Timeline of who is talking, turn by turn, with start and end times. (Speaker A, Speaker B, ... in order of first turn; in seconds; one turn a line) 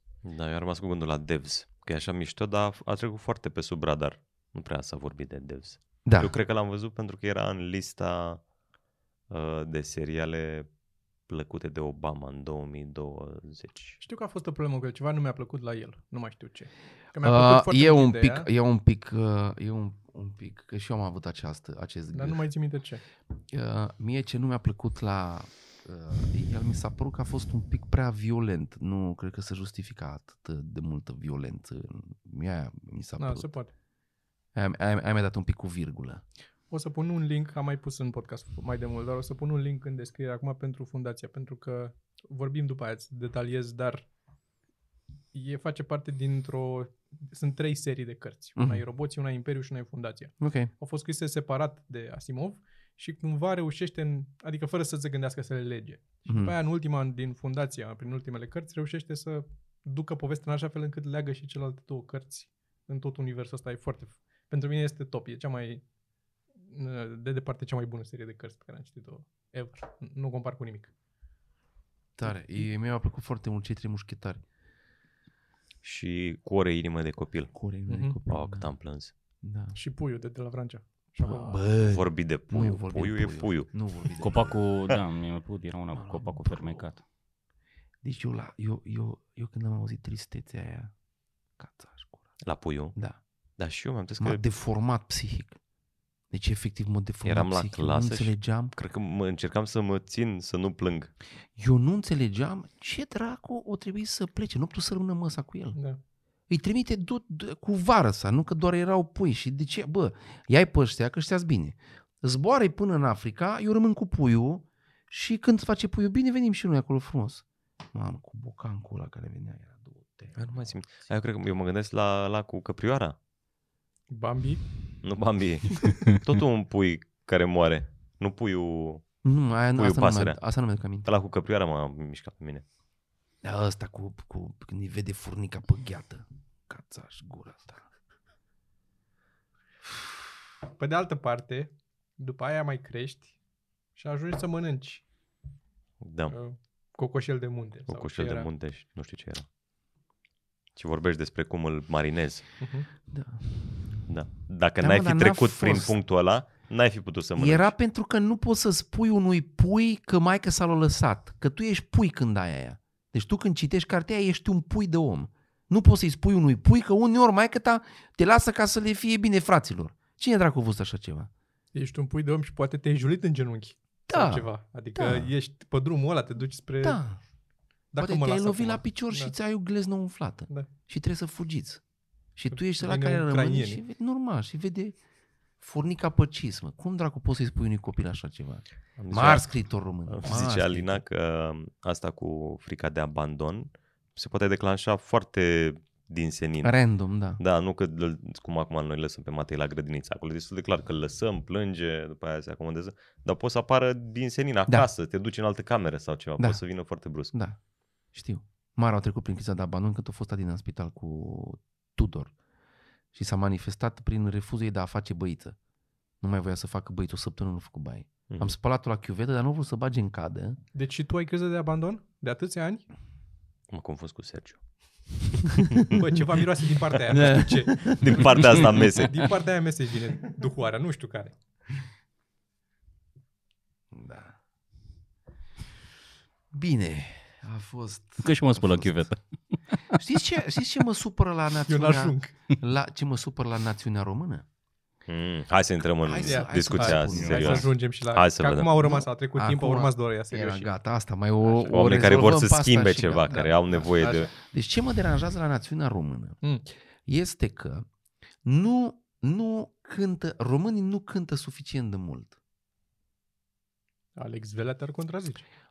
Speaker A: 0.2-8.4
Speaker B: 6.0-6.3
Speaker A: 9.3-10.7
Speaker A: 11.3-14.0
Speaker C: 14.0-18.5
Speaker B: 17.2-22.4
Speaker C: 22.1-23.0
Speaker B: 23.5-33.5
Speaker C: 33.2-33.7
Speaker B: 34.5-36.2
Speaker C: 36.7-44.0
Speaker C: 45.3-65.8
Speaker B: 48.6-48.8
Speaker B: 50.4-50.7
Speaker B: 56.3-56.5
Speaker C: 66.6-70.9
Speaker B: 72.2-74.4
Speaker A: 75.8-77.5
Speaker B: 77.5-78.7
Speaker C: 77.9-78.2
Speaker A: 78.3-79.1
Speaker B: 79.4-79.8
Speaker C: 79.7-81.6
Speaker B: 81.2-84.6
Speaker A: 81.9-83.7
Speaker D: 84.2-87.0
Speaker B: 85.9-86.9
Speaker B: 88.0-90.9
Speaker B: 91.6-92.2
Speaker A: 92.4-92.9
Speaker A: 93.6-94.4
Speaker B: 94.2-95.6
Speaker B: 96.3-98.7
Speaker A: 97.2-101.1
Speaker B: 101.6-105.8
Speaker C: 105.7-106.0
Speaker B: 106.5-120.9
Speaker A: 120.4-123.2
Speaker C: 124.1-124.6
Speaker A: 125.0-129.0
Speaker B: 129.2-131.1
Speaker A: 129.7-130.4
Speaker A: 131.0-132.6
Speaker B: 133.4-137.8
Speaker C: 140.8-143.3
Speaker C: 143.9-145.0
Speaker A: 146.0-146.3
Speaker C: 146.3-148.5
Speaker A: 147.9-149.4
Speaker A: 150.8-152.4
Speaker C: 152.6-152.9
Speaker B: 153.1-154.1
Speaker A: 154.1-157.7
Speaker B: 154.8-155.9
Speaker B: 157.4-171.3
Speaker C: 171.7-177.0
Speaker B: 174.1-175.3
Speaker B: 176.8-177.2
Speaker C: 177.9-179.3
Speaker B: 178.0-181.8
Speaker B: 182.3-184.9
Speaker C: 182.5-183.8
Speaker B: 185.6-191.0
Speaker A: 189.0-189.5
Speaker A: 190.1-196.7
Speaker B: 196.6-197.4
Speaker A: 197.4-207.3
Speaker B: 207.3-207.6
Speaker B: 208.1-212.3
Speaker B: 213.1-215.6
Speaker B: 216.2-220.6
Speaker C: 220.7-222.8
Speaker A: 223.7-224.6
Speaker C: 225.9-231.3
Speaker B: 227.1-228.6
Speaker A: 227.9-229.3
Speaker B: 233.9-234.3
Speaker B: 236.5-239.1
Speaker D: 238.2-239.2
Speaker B: 239.9-244.4
Speaker C: 241.7-242.3
Speaker A: 245.1-248.7
Speaker B: 246.0-247.7
Speaker C: 246.2-250.7
Speaker D: 247.2-247.5
Speaker B: 248.8-256.4
Speaker C: 251.4-251.8
Speaker A: 251.7-254.3
Speaker C: 254.0-254.3
Speaker B: 257.1-257.9
Speaker B: 258.4-262.4
Speaker C: 264.1-265.4